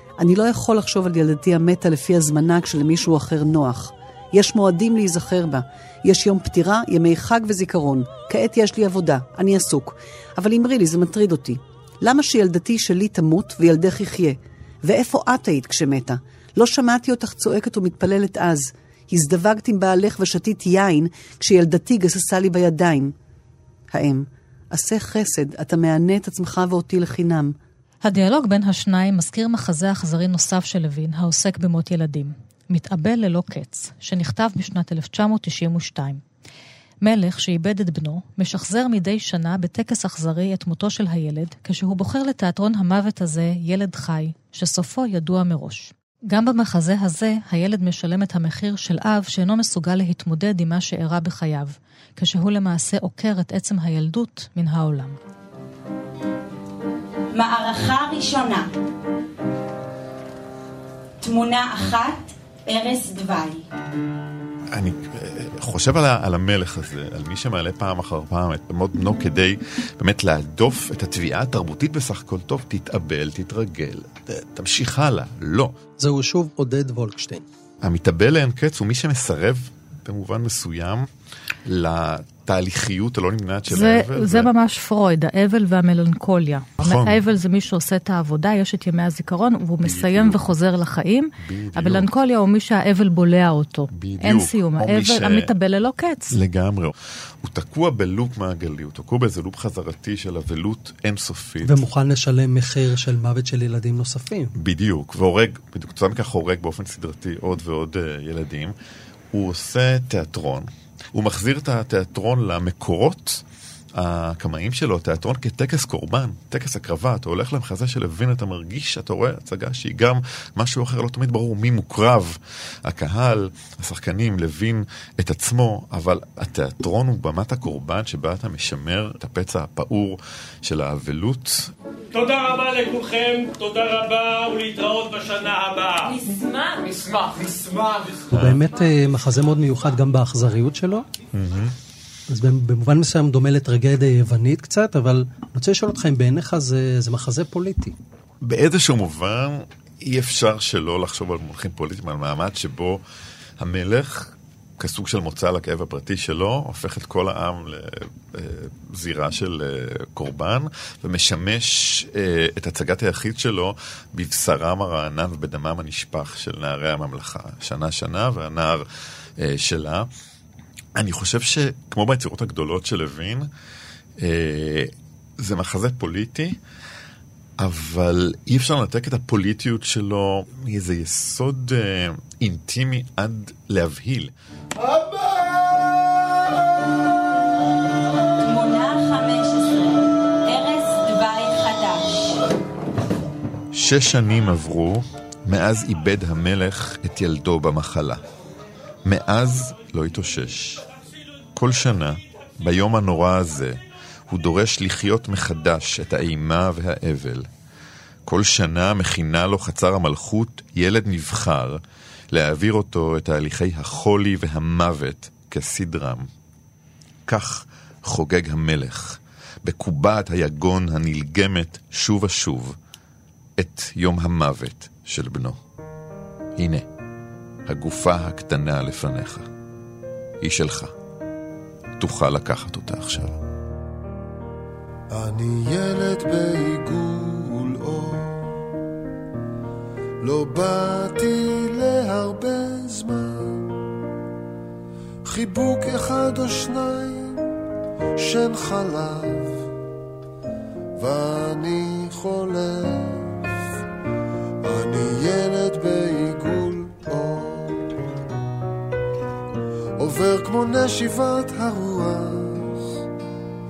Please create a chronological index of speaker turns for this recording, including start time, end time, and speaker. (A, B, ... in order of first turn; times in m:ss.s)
0:00.2-0:23.1 A
0:23.9-0:27.5 A
0:28.0-0:36.2 B
0:37.0-0:55.2 B
0:57.3-0:58.7 C
1:01.2-1:03.6 C
1:04.7-1:15.7 D
1:16.0-1:17.4 E
1:17.8-1:21.1 D
1:21.6-1:24.5 D
1:23.7-1:36.4 B
1:26.8-1:27.2 D
1:29.8-1:30.4 D
1:31.4-1:32.1 D
1:33.9-1:35.5 D
1:36.3-1:41.8 D
1:41.6-1:44.5 E
1:44.6-1:48.7 D
1:49.3-1:53.4 D
1:54.0-2:11.7 D
2:12.1-2:16.1 F
2:16.9-2:18.2 F
2:18.3-2:18.6 D
2:18.3-2:21.1 E
2:21.3-2:21.7 D
2:22.3-2:28.0 E
2:28.4-2:33.0 D
2:33.6-2:48.8 D
2:49.4-2:50.1 D
2:50.9-2:53.5 D
2:54.2-2:56.6 D
2:57.6-3:04.3 D
3:08.4-3:12.4 C
3:13.7-3:18.2 D
3:19.0-3:20.8 D
3:21.5-3:27.5 D
3:28.2-3:31.8 D
3:32.3-3:36.3 D
3:37.3-3:42.8 D
3:43.6-3:45.6 D
3:46.6-3:46.8 D
3:47.7-3:49.5 D
3:50.4-3:50.9 D
3:52.0-3:53.4 D
3:55.1-3:58.6 G
4:00.2-4:03.7 G
4:05.2-4:07.4 G
4:08.2-4:09.6 G
4:11.0-4:13.5 G
4:14.6-4:17.8 G
4:20.0-4:22.9 G